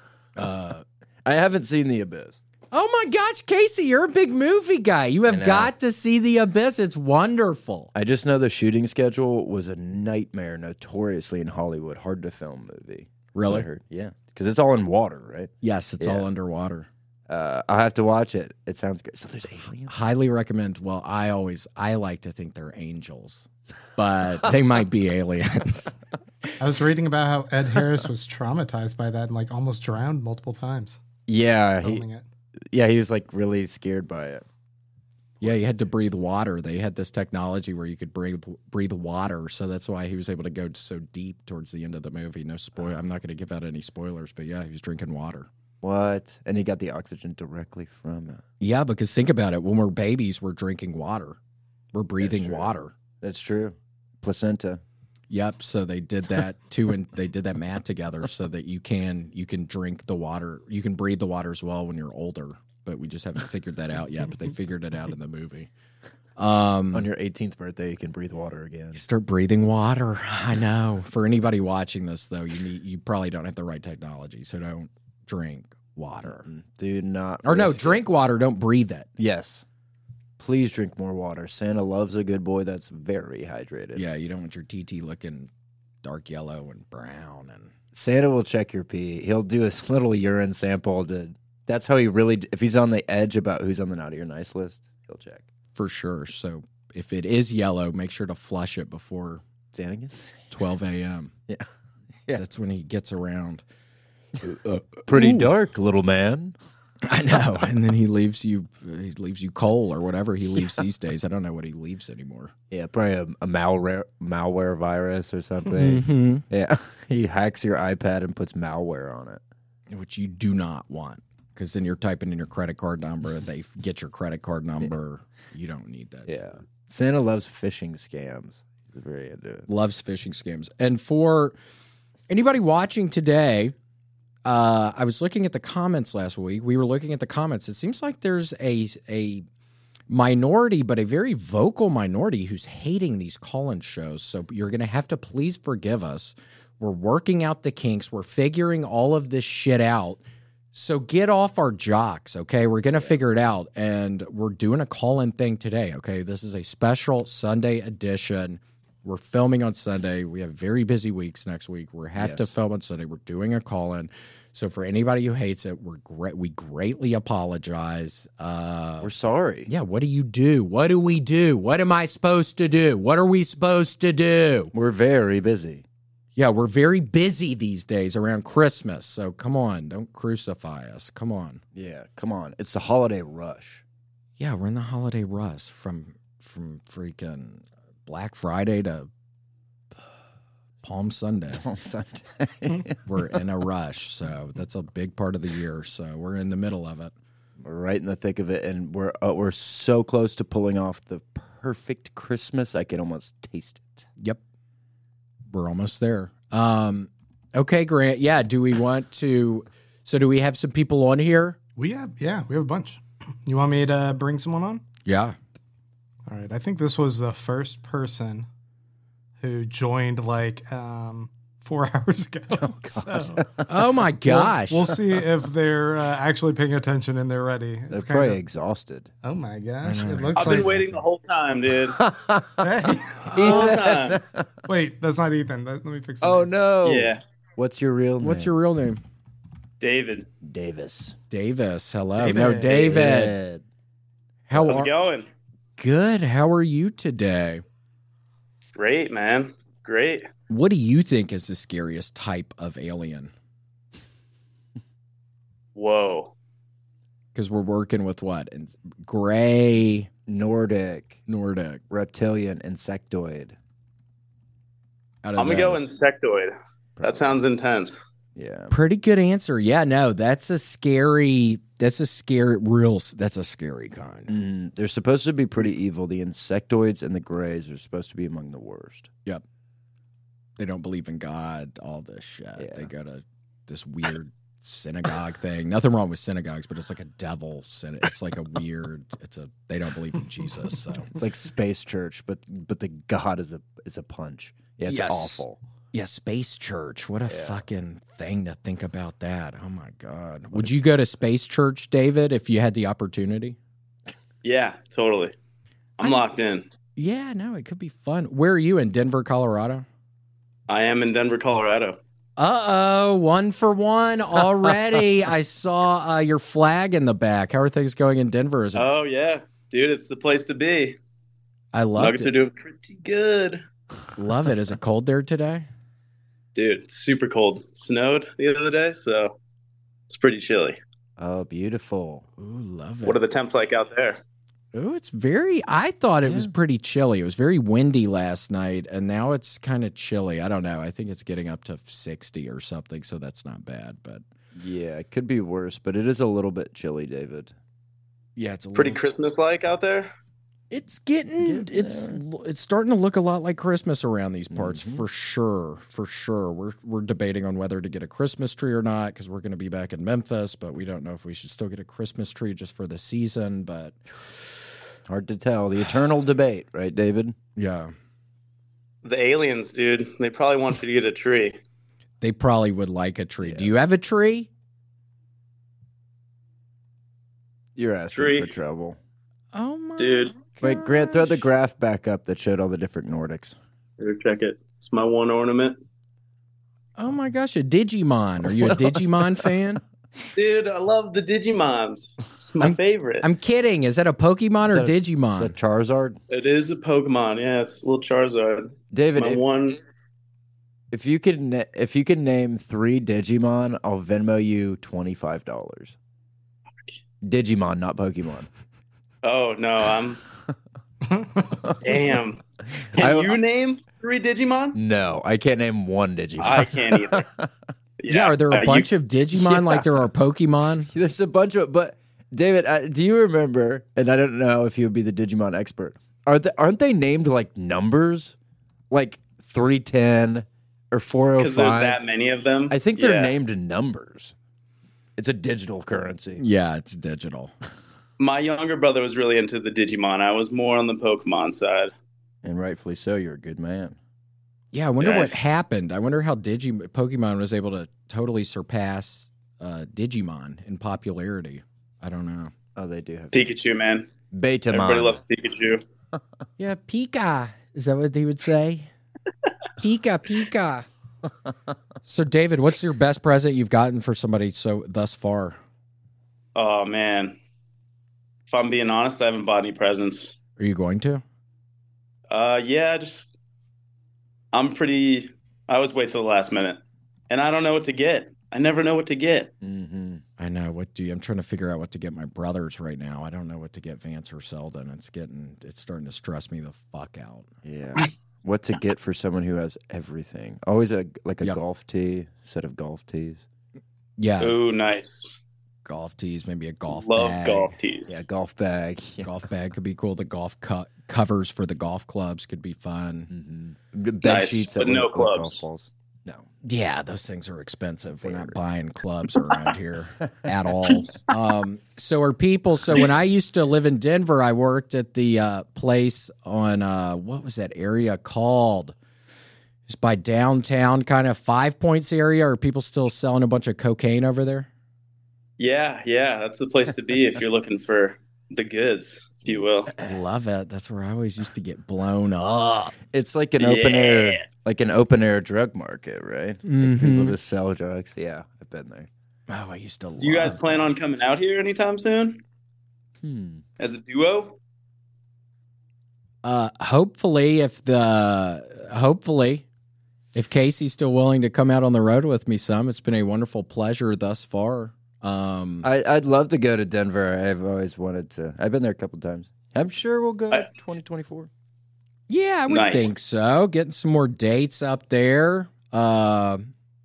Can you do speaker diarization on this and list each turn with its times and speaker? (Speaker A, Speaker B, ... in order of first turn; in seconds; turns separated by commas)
Speaker A: 0.3-0.8, Speaker B: 1.2-2.4, Speaker A: 2.7-7.9, Speaker B: 5.3-5.7, Speaker B: 7.9-16.2, Speaker A: 13.3-13.7, Speaker A: 15.6-16.9, Speaker B: 17.3-19.9, Speaker A: 19.9-25.9, Speaker C: 26.6-31.0, Speaker B: 31.3-32.0, Speaker C: 31.8-32.2, Speaker B: 32.7-34.4, Speaker A: 35.4-45.5, Speaker B: 45.8-48.4, Speaker A: 48.6-51.4, Speaker A: 51.9-52.9, Speaker B: 52.2-54.8, Speaker A: 55.3-65.7, Speaker A: 66.4-67.1, Speaker B: 66.9-69.0, Speaker A: 68.9-76.5, Speaker B: 76.4-78.0, Speaker A: 77.4-79.1, Speaker B: 79.2-79.6, Speaker B: 80.4-84.0, Speaker A: 83.9-85.5, Speaker A: 86.0-87.7, Speaker B: 87.9-95.5, Speaker A: 95.7-99.4, Speaker B: 99.7-100.5, Speaker A: 100.5-101.3, Speaker A: 102.3-103.6, Speaker A: 104.4-105.5, Speaker B: 105.0-106.5, Speaker A: 107.0-112.5, Speaker B: 112.7-119.4, Speaker A: 115.7-116.4, Speaker A: 119.9-126.4, Speaker B: 126.2-129.7, Speaker A: 129.7-131.6, Speaker A: 132.3-133.7, Speaker A: 134.4-139.4, Speaker A: 140.1-150.2, Speaker A: 150.7-169.1, Speaker B: 162.2-162.5, Speaker B: 169.0-169.7, Speaker A: 169.7-174.7, Speaker B: 174.7-175.8, Speaker A: 176.3-181.6, Speaker B: 181.7-183.8, Speaker A: 184.4-189.1, Speaker A: 190.8-191.6, Speaker B: 191.5-193.0, Speaker A: 193.0-197.1, Speaker B: 197.6-204.1, Speaker A: 205.5-211.6, Speaker C: 211.8-214.8, Speaker A: 215.0-215.3, Speaker C: 216.3-218.5, Speaker C: 219.4-223.5, Speaker B: 222.5-223.7, Speaker A: 223.7-224.9, Speaker C: 224.2-228.4, Speaker B: 227.9-229.1, Speaker C: 229.2-230.8, Speaker A: 229.8-231.0, Speaker D: 230.3-232.0, Speaker B: 231.9-232.7, Speaker C: 232.6-233.7, Speaker B: 233.3-234.5, Speaker D: 233.3-234.2, Speaker C: 234.7-236.5, Speaker B: 236.2-238.5, Speaker D: 236.8-237.2, Speaker A: 238.2-239.0, Speaker D: 239.8-240.3, Speaker B: 240.4-241.2, Speaker A: 241.3-243.3, Speaker C: 242.2-242.9, Speaker D: 242.7-243.0, Speaker B: 242.8-243.6, Speaker A: 244.5-244.9, Speaker D: 244.6-245.3, Speaker A: 245.8-247.6, Speaker D: 248.8-250.2, Speaker A: 250.5-253.3, Speaker D: 255.7-256.3, Speaker A: 257.3-260.1, Speaker B: 260.3-261.2, Speaker A: 261.3-261.8, Speaker B: 261.9-263.6, Speaker A: 265.2-265.9, Speaker D: 265.4-268.0, Speaker B: 267.0-267.3, Speaker B: 268.3-268.7, Speaker A: 268.7-274.3, Speaker B: 274.3-279.1, Speaker A: 280.6-291.1, Speaker B: 282.6-282.9, Speaker B: 291.1-295.6, Speaker A: 294.9-303.6, Speaker B: 297.3-297.6, Speaker D: 304.4-305.3, Speaker D: 306.0-306.6, Speaker A: 307.0-309.9, Speaker D: 310.7-312.0, Speaker A: 312.4-318.9, Speaker D: 318.7-321.0, Speaker A: 321.7-322.3, Speaker D: 322.0-323.6, Speaker A: 324.1-325.7, Speaker D: 326.6-329.4, Speaker D: 330.1-330.8, Speaker B: 331.2-332.2, Speaker A: 332.4-333.2, Speaker D: 333.0-334.2, Speaker A: 334.7-344.2, Speaker B: 336.2-336.5, Speaker B: 344.6-347.5, Speaker A: 348.4-349.0, Speaker D: 348.7-350.1, Speaker A: 350.7-364.6, Speaker B: 351.4-352.2, Speaker B: 354.5-355.0, Speaker B: 365.1-367.4, Speaker A: 367.6-367.9, Speaker D: 369.0-371.6, Speaker A: 372.2-374.5, Speaker B: 373.4-373.7, Speaker B: 377.8-379.0, Speaker D: 378.1-378.5, Speaker A: 379.5-381.4, Speaker D: 380.0-380.3, Speaker B: 380.6-383.6, Speaker D: 384.0-385.8, Speaker A: 387.0-389.8, Speaker D: 390.3-393.3, Speaker A: 392.6-395.6, Speaker B: 394.6-396.2, Speaker D: 396.3-399.8, Speaker B: 398.9-399.4, Speaker B: 400.9-405.9, Speaker B: 407.2-408.5, Speaker D: 409.2-410.2, Speaker C: 411.1-411.4, Speaker D: 411.8-412.4, Speaker B: 412.8-413.4, Speaker D: 412.9-414.8, Speaker B: 414.7-417.5, Speaker D: 416.4-417.2, Speaker D: 418.0-418.9, Speaker A: 418.1-420.9, Speaker B: 419.4-419.9, Speaker B: 420.9-428.4, Speaker B: 428.9-432.0, Speaker D: 431.4-433.3, Speaker B: 432.7-434.3, Speaker B: 435.2-436.4, Speaker A: 436.4-437.5, Speaker D: 438.2-441.9, Speaker B: 442.4-444.0, Speaker A: 444.7-452.5, Speaker D: 445.0-445.4, Speaker B: 452.8-453.5, Speaker D: 453.3-454.1, Speaker B: 454.3-455.2, Speaker D: 454.7-455.8, Speaker A: 456.6-458.9, Speaker A: 459.8-460.9, Speaker A: 462.0-465.6, Speaker D: 466.5-467.4, Speaker D: 468.5-470.3, Speaker A: 470.6-471.2, Speaker D: 472.3-473.3, Speaker D: 474.5-476.8, Speaker D: 477.3-479.5, Speaker B: 479.6-480.2, Speaker A: 480.4-487.5, Speaker B: 487.6-493.4, Speaker A: 494.2-494.6, Speaker D: 494.4-495.4, Speaker A: 495.8-497.7, Speaker D: 496.9-498.1, Speaker B: 498.1-499.3, Speaker A: 499.2-503.3, Speaker B: 503.3-506.4, Speaker D: 504.2-505.6, Speaker A: 506.6-519.0, Speaker B: 508.2-508.6, Speaker A: 519.9-524.7, Speaker D: 525.6-529.9, Speaker A: 530.0-532.9, Speaker B: 533.1-539.1, Speaker D: 533.6-534.4, Speaker A: 536.6-537.4, Speaker A: 539.5-540.9, Speaker D: 540.2-542.4, Speaker B: 543.2-543.6, Speaker D: 543.8-544.6, Speaker A: 546.4-549.6, Speaker A: 550.3-555.9, Speaker B: 555.8-561.5, Speaker A: 562.3-566.7, Speaker D: 562.7-563.1